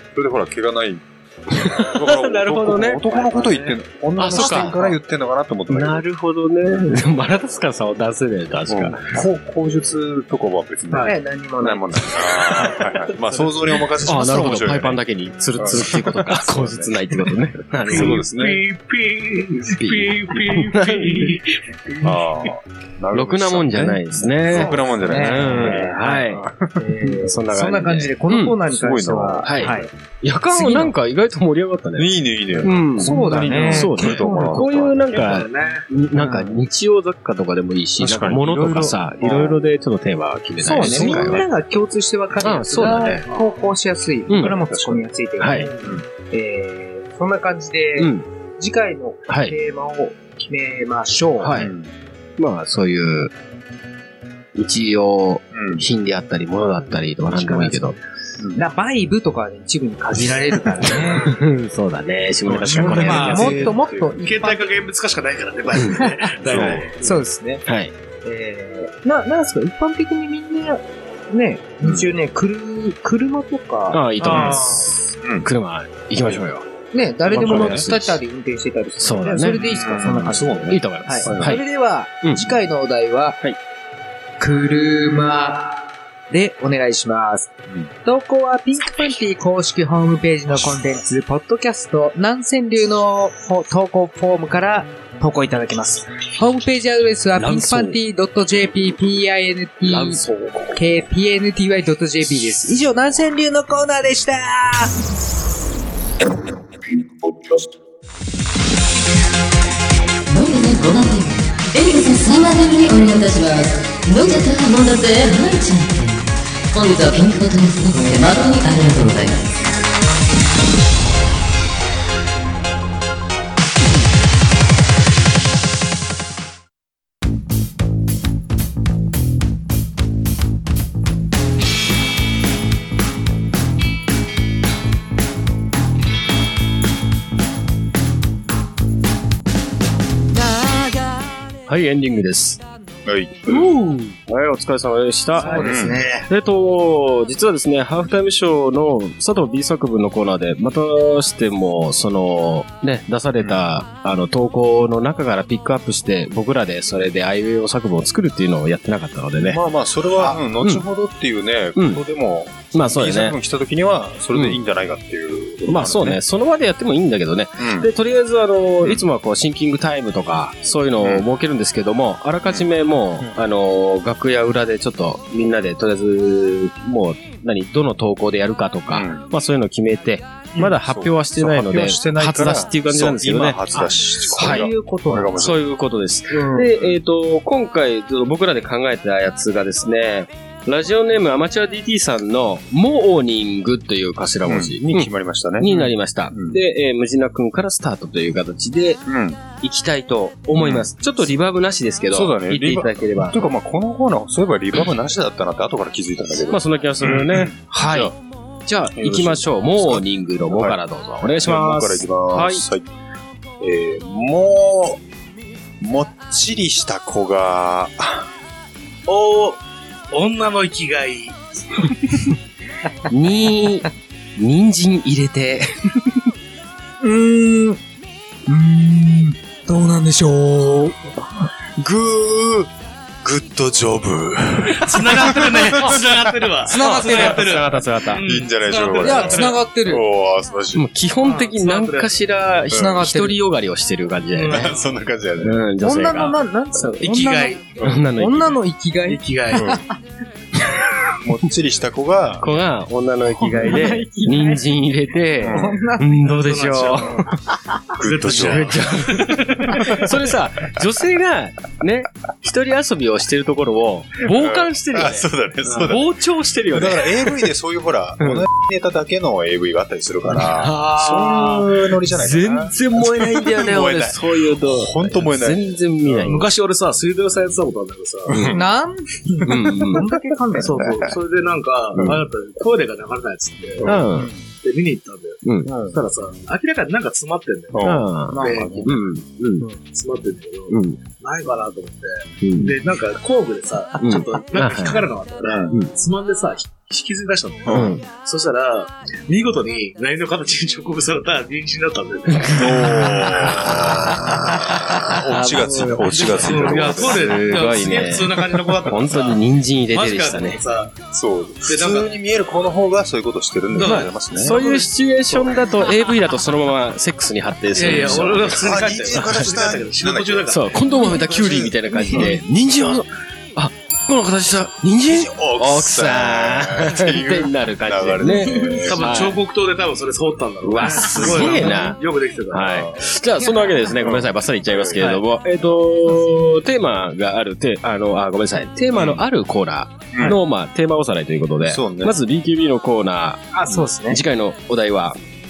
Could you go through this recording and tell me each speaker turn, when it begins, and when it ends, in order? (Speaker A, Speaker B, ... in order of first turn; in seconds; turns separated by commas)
Speaker A: 0.1-6.0, Speaker B: 1.5-3.0, Speaker C: 3.1-3.7, Speaker B: 4.2-4.8, Speaker C: 4.3-4.7, Speaker B: 5.7-9.0, Speaker A: 6.7-7.0, Speaker A: 8.7-15.0, Speaker D: 11.0-11.8, Speaker B: 12.2-12.8, Speaker B: 14.0-18.2, Speaker A: 15.6-18.6, Speaker C: 17.9-21.5, Speaker B: 19.7-21.4, Speaker A: 22.0-26.8, Speaker B: 23.1-26.4, Speaker D: 24.5-29.9, Speaker B: 27.1-28.6, Speaker A: 28.7-29.8, Speaker B: 29.4-41.4, Speaker D: 30.5-30.9, Speaker A: 31.9-35.0, Speaker D: 33.0-34.6, Speaker C: 35.1-35.9, Speaker D: 36.2-36.5, Speaker A: 38.0-39.6, Speaker D: 40.6-51.5, Speaker A: 40.8-41.5, Speaker B: 42.4-43.2, Speaker C: 42.7-43.5, Speaker B: 44.3-44.5, Speaker A: 44.4-45.0, Speaker B: 45.4-45.7, Speaker C: 45.5-45.9, Speaker B: 48.0-48.2, Speaker B: 49.3-49.5, Speaker B: 51.4-51.7, Speaker A: 51.5-51.9, Speaker B: 52.4-53.3, Speaker B: 54.5-58.0, Speaker A: 55.5-55.9, Speaker C: 56.8-58.0, Speaker D: 58.5-61.3, Speaker B: 60.9-63.7, Speaker A: 62.4-64.2, Speaker C: 62.7-63.7, Speaker D: 62.8-64.7, Speaker C: 64.2-67.0, Speaker B: 65.7-66.9, Speaker D: 66.0-66.3, Speaker A: 66.4-66.9, Speaker D: 67.0-67.6, Speaker B: 67.7-67.9, Speaker D: 68.2-74.5, Speaker A: 71.8-72.1, Speaker B: 73.9-76.7, Speaker C: 74.2-75.0, Speaker A: 74.3-74.6, Speaker A: 75.2-75.5, Speaker D: 76.9-83.4, Speaker B: 77.3-78.2, Speaker A: 77.3-77.9, Speaker B: 79.0-79.9, Speaker A: 79.5-81.6, Speaker B: 80.7-81.6, Speaker B: 82.2-82.5, Speaker D: 84.4-87.5, Speaker D: 88.0-100.2, Speaker B: 97.3-98.0, Speaker B: 99.8-100.8, Speaker D: 100.7-104.9, Speaker E: 110.3-119.4, Speaker B: 141.7-142.6, Speaker A: 143.1-143.6, Speaker B: 143.5-145.7, Speaker D: 145.4-146.3, Speaker A: 145.6-146.0, Speaker B: 146.3-159.6, Speaker A: 153.4-153.7, Speaker A: 159.4-166.2, Speaker B: 160.3-160.8, Speaker B: 161.8-162.0, Speaker B: 162.7-163.3, Speaker B: 165.7-184.7, Speaker A: 167.6-167.9, Speaker A: 171.0-171.2, Speaker A: 172.4-173.4, Speaker A: 178.9-179.3, Speaker A: 180.5-185.6, Speaker D: 184.3-185.3, Speaker B: 185.3-199.0, Speaker D: 186.3-186.7, Speaker A: 186.7-187.0, Speaker A: 194.4-195.8, Speaker A: 196.3-196.6, Speaker A: 199.1-199.4, Speaker B: 199.6-203.4, Speaker A: 200.6-200.9, Speaker A: 202.1-208.1, Speaker B: 206.5-212.6, Speaker A: 209.0-210.8, Speaker A: 211.4-212.9, Speaker A: 213.6-215.0, Speaker A: 215.8-218.3, Speaker C: 219.1-221.4, Speaker B: 223.1-225.9, Speaker D: 227.0-227.8, Speaker D: 228.5-231.2, Speaker A: 231.8-232.7, Speaker A: 233.2-236.5, Speaker C: 234.8-239.6, Speaker D: 236.7-237.5, Speaker B: 236.8-238.2, Speaker A: 238.2-240.8, Speaker D: 239.0-240.0, Speaker B: 240.7-244.7, Speaker C: 241.2-242.1, Speaker A: 242.7-243.0, Speaker D: 242.7-243.4, Speaker C: 244.3-244.9, Speaker A: 244.5-245.6, Speaker B: 245.4-246.4, Speaker D: 245.8-247.6, Speaker C: 247.0-247.6, Speaker A: 247.8-248.0, Speaker B: 247.8-248.6, Speaker D: 248.1-249.8, Speaker C: 249.1-249.7, Speaker A: 249.5-249.8, Speaker A: 251.2-252.5, Speaker B: 252.4-257.3, Speaker D: 253.4-254.6, Speaker A: 255.4-255.8, Speaker D: 255.5-256.2, Speaker C: 256.2-257.1, Speaker A: 258.0-258.8, Speaker C: 258.0-260.1, Speaker B: 258.2-267.5, Speaker A: 259.7-260.0, Speaker A: 264.2-266.1, Speaker A: 266.7-276.4, Speaker B: 270.3-276.5, Speaker C: 276.2-278.5, Speaker B: 278.3-278.6, Speaker D: 278.5-281.0, Speaker B: 279.4-280.1, Speaker C: 280.6-283.9, Speaker B: 282.0-282.2, Speaker A: 283.8-284.3, Speaker B: 283.8-284.3, Speaker C: 284.6-288.9, Speaker B: 285.4-285.7, Speaker D: 285.6-286.0, Speaker A: 287.7-288.1, Speaker B: 287.8-289.6, Speaker D: 288.3-288.9, Speaker C: 289.8-302.7, Speaker B: 290.7-291.0, Speaker B: 292.4-292.7, Speaker B: 294.0-295.1, Speaker A: 295.4-295.7, Speaker A: 297.6-297.9, Speaker B: 297.7-298.0, Speaker B: 302.3-310.6, Speaker A: 302.5-307.4, Speaker C: 306.4-310.9, Speaker A: 311.1-314.6, Speaker C: 311.7-312.1, Speaker C: 313.7-314.9, Speaker B: 313.8-319.5, Speaker C: 317.7-321.7, Speaker A: 317.9-320.6, Speaker B: 320.5-329.4, Speaker A: 325.1-329.2, Speaker D: 328.3-328.9, Speaker C: 328.9-332.8, Speaker B: 330.6-332.0, Speaker A: 331.2-331.8, Speaker B: 332.5-345.2, Speaker A: 332.6-333.1, Speaker D: 333.4-333.9, Speaker A: 333.9-335.2, Speaker C: 335.0-335.2, Speaker A: 338.9-339.2, Speaker A: 340.1-340.4, Speaker A: 341.6-342.2, Speaker D: 343.5-344.2